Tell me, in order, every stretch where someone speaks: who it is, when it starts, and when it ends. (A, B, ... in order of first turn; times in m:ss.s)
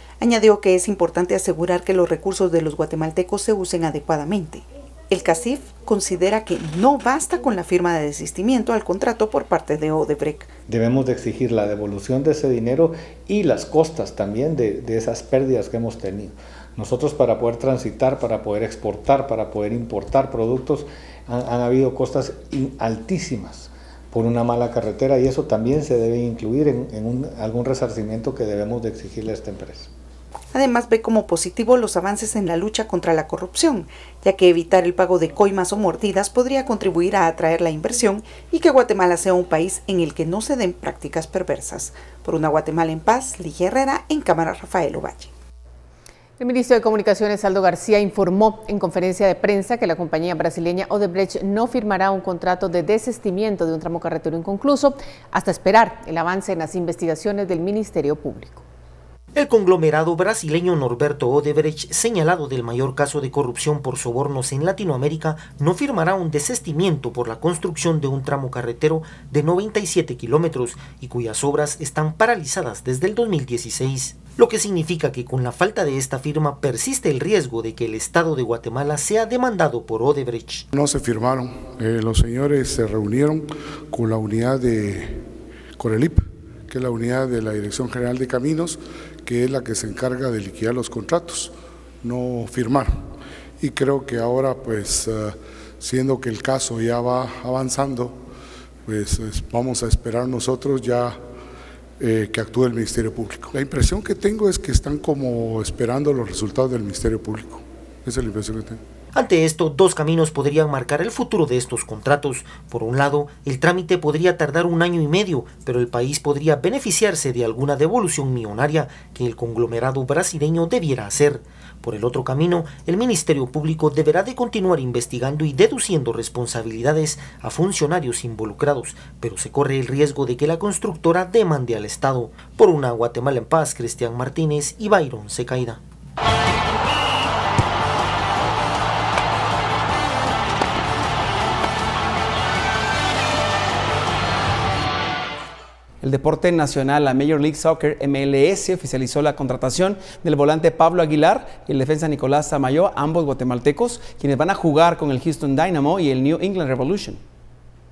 0:00.2-0:10.5 A
0:10.7-0:29.9 B
0:30.5-0:45.3 A
0:46.4-0:58.6 C
0:59.4-1:20.7 D
1:20.7-1:25.2 E
1:25.8-1:32.9 E
1:33.6-1:38.2 E
1:38.9-1:41.2 E
1:42.0-1:48.8 E
1:49.2-2:15.8 D
2:26.0-2:37.2 F